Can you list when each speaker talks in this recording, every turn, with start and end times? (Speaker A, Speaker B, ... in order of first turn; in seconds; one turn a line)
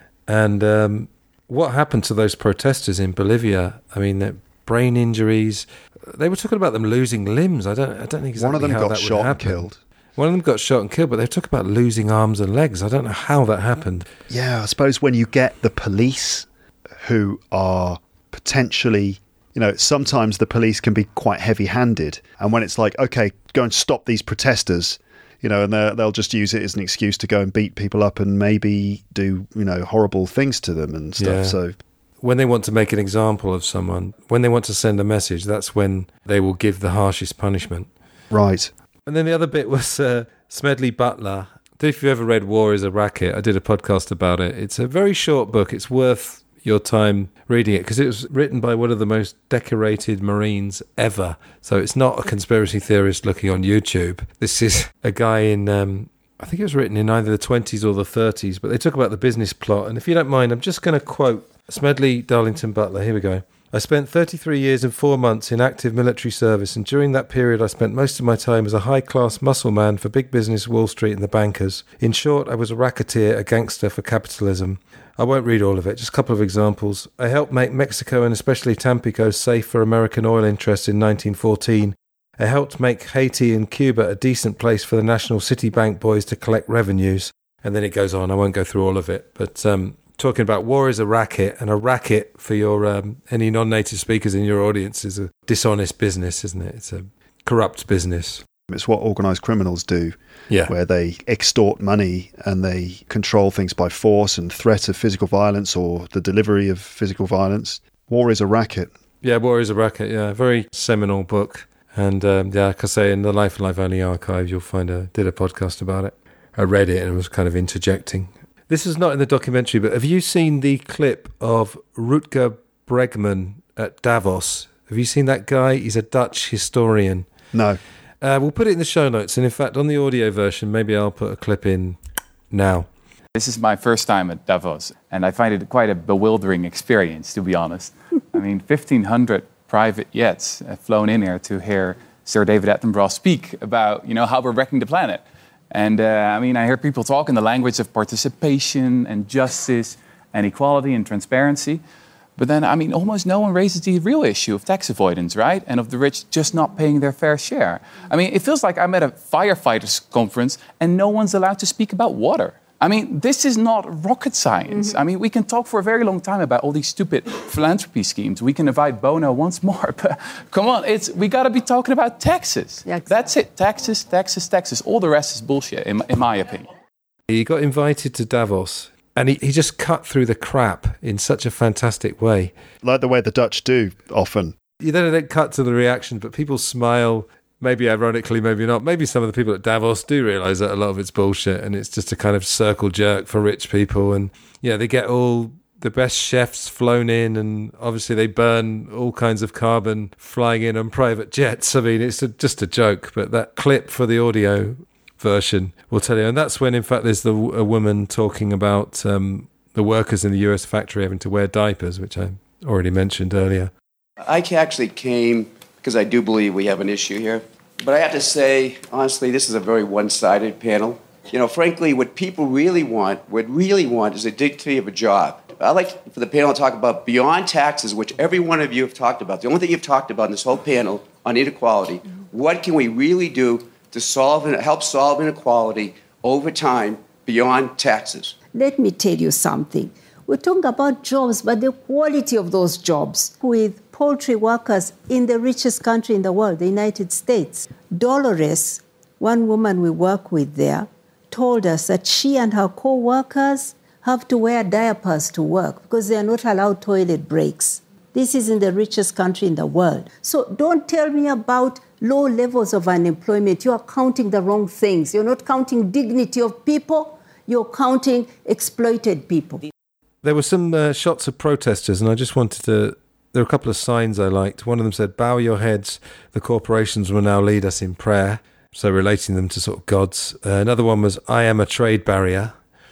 Speaker A: 0.3-14.1
Speaker B: 8.4-9.8
Speaker B: 14.3-16.5
Speaker B: 17.0-31.8
Speaker A: 31.2-31.6
Speaker A: 32.2-37.9
Speaker B: 38.3-38.7
Speaker A: 39.1-98.4
Speaker B: 98.7-100.2
Speaker B: 100.7-108.9
Speaker A: 109.2-127.3
Speaker B: 127.5-127.8
Speaker A: 128.2-132.0
Speaker A: 132.5-132.9
Speaker C: 133.3-151.8
Speaker C: 152.4-176.7
Speaker A: 177.3-182.5
Speaker B: 182.8-184.6
Speaker A: 184.8-213.7
Speaker D: 214.2-238.3
Speaker E: 238.5-269.6
Speaker A: 270.2-282.5